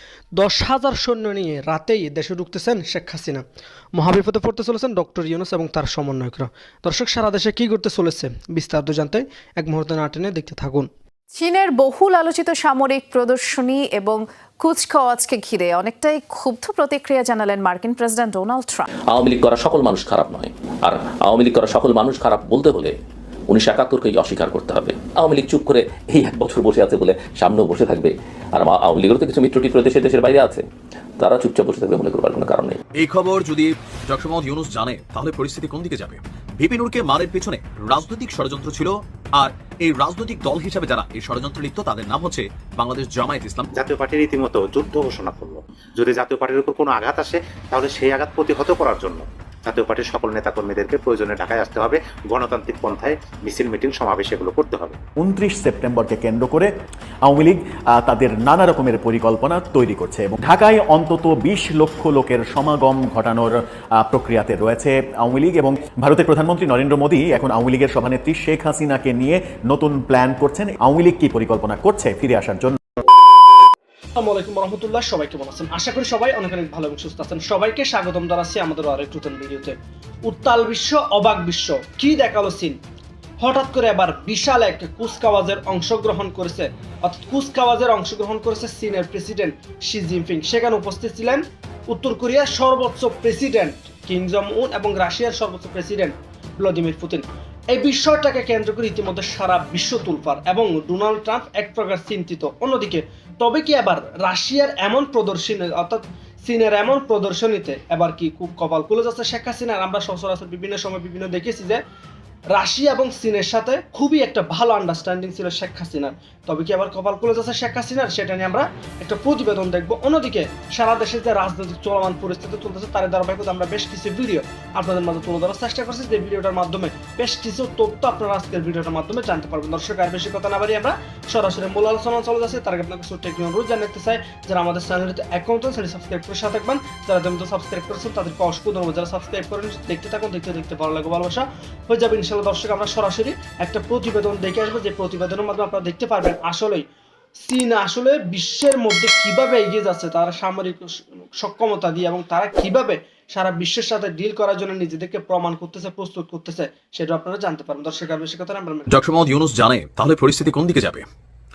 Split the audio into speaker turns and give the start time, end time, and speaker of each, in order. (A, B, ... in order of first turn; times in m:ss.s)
0:00.4-0:03.4 A
0:03.9-0:10.9 A
0:11.4-0:18.9 B
0:19.1-0:23.0 C
0:23.5-0:30.6 C
0:31.2-0:32.8 C
0:33.0-0:43.7 D
0:43.7-0:55.0 E
0:55.2-0:56.7 F
0:57.2-1:12.8 F
1:14.1-1:22.8 A
1:23.4-1:51.8 A
1:52.5-2:26.8 A
2:27.4-2:38.9 A
2:38.9-2:41.0 D